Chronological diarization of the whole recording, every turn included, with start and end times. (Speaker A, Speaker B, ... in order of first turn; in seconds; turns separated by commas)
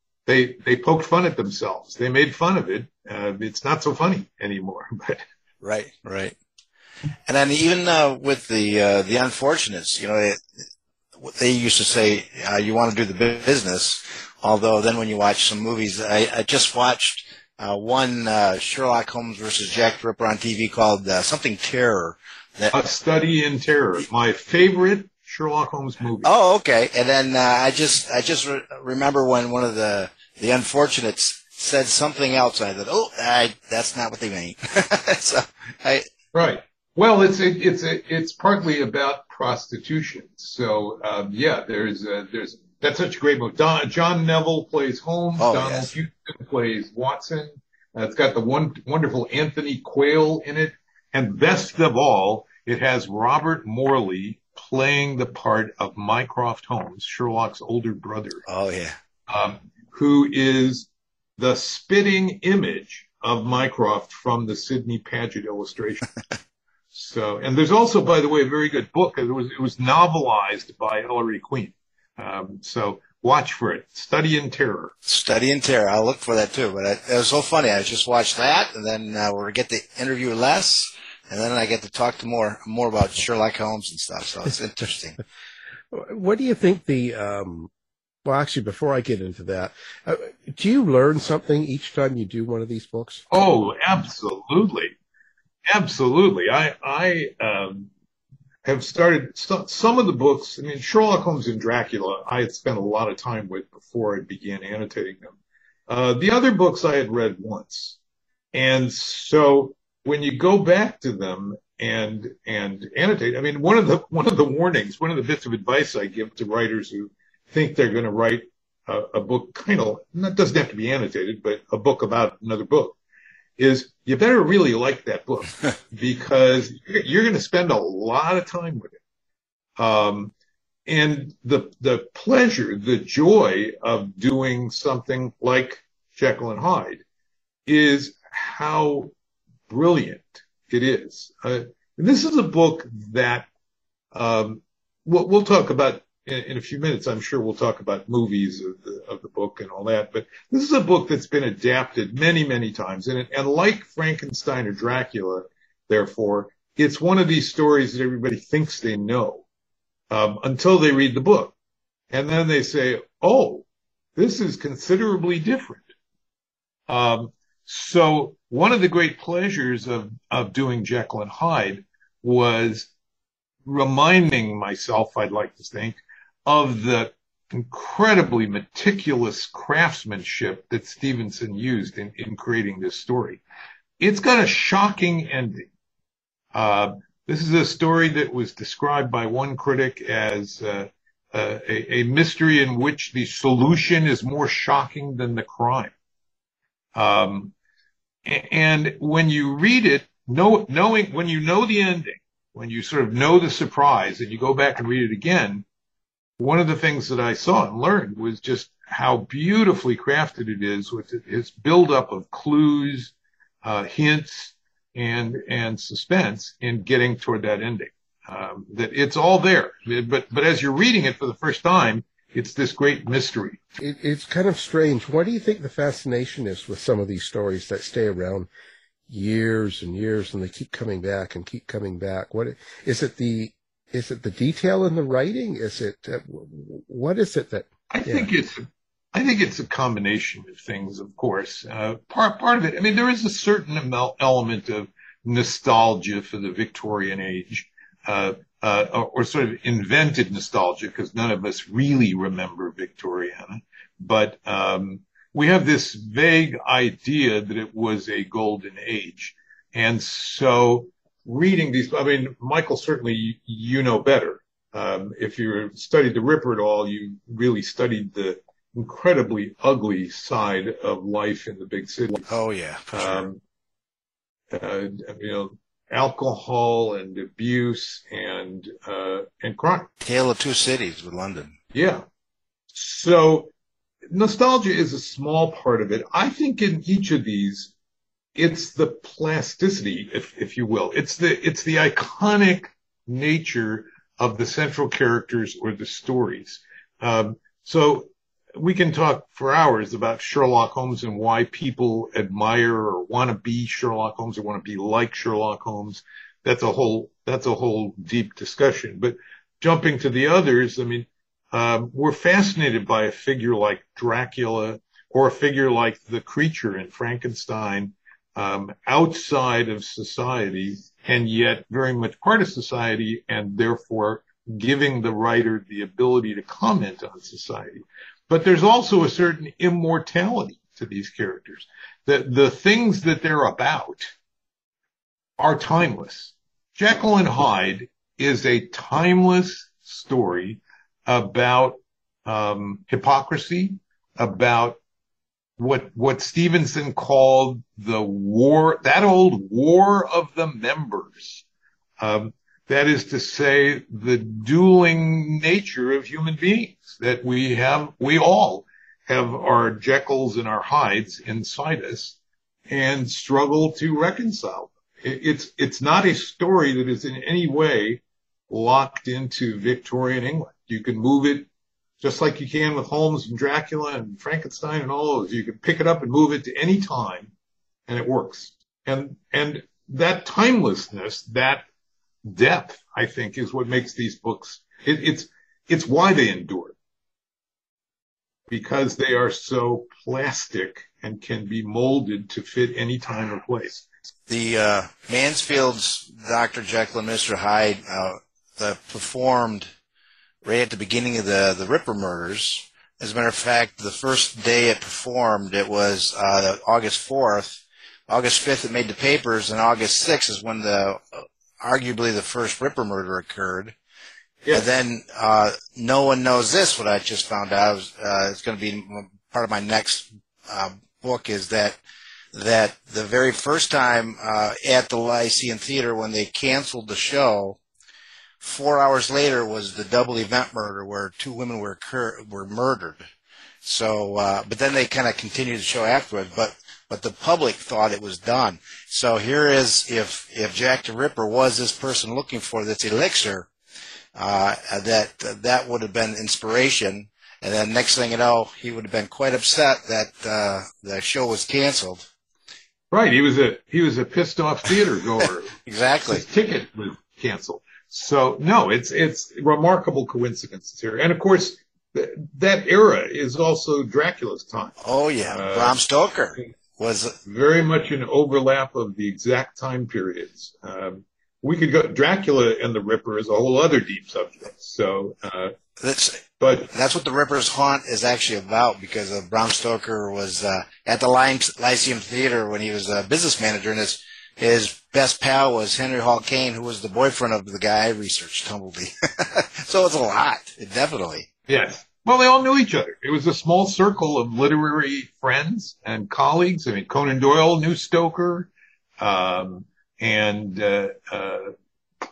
Speaker A: 0.2-5.2, Speaker B: 5.6-6.3, Speaker B: 7.3-10.4, Speaker B: 11.2-22.8, Speaker A: 22.7-26.3, Speaker B: 26.2-36.0, Speaker A: 36.3-58.4, Speaker B: 45.4-45.9, Speaker B: 58.5-59.0, Speaker A: 59.3-60.9, Speaker A: 61.4-66.0, Speaker A: 66.9-74.9, Speaker B: 75.0-85.2, Speaker C: 85.9-87.7, Speaker C: 88.2-93.2, Speaker A: 93.3-94.9, Speaker A: 95.7-97.9, Speaker A: 98.6-105.3, Speaker A: 105.9-108.0, Speaker A: 108.5-123.0, Speaker A: 123.6-129.0, Speaker A: 129.8-130.3, Speaker A: 130.8-137.0, Speaker A: 137.7-139.1, Speaker A: 139.7-143.4, Speaker A: 144.1-159.4, Speaker A: 160.1-161.5, Speaker A: 162.1-163.6, Speaker A: 164.2-165.8, Speaker A: 166.9-172.9, Speaker A: 173.7-183.4, Speaker A: 184.0-185.7, Speaker A: 186.5-195.9, Speaker A: 196.9-197.5, Speaker A: 198.2-205.6, Speaker A: 206.4-223.8, Speaker C: 223.8-228.5, Speaker C: 229.1-238.3, Speaker A: 237.9-272.3, Speaker B: 272.3-273.2, Speaker A: 272.9-273.4, Speaker A: 274.5-279.9, Speaker B: 280.0-281.6, Speaker A: 281.7-282.0, Speaker A: 282.7-283.5, Speaker A: 284.1-287.7, Speaker A: 288.3-334.1, Speaker A: 335.4-344.8, Speaker A: 345.6-351.4, Speaker A: 352.0-362.1, Speaker A: 362.7-371.5, Speaker A: 372.0-377.3, Speaker A: 377.9-381.6, Speaker A: 382.2-386.7, Speaker A: 388.5-393.9, Speaker B: 394.3-399.7, Speaker B: 400.4-413.7, Speaker A: 414.4-414.7, Speaker B: 414.5-421.8, Speaker B: 422.3-427.6, Speaker B: 428.4-433.1, Speaker B: 433.6-443.5, Speaker B: 444.1-452.1, Speaker A: 452.9-455.5, Speaker B: 455.6-456.2, Speaker A: 456.1-465.8, Speaker B: 464.8-467.2, Speaker A: 467.2-475.5, Speaker B: 475.8-491.3, Speaker A: 476.4-476.7, Speaker A: 491.5-501.5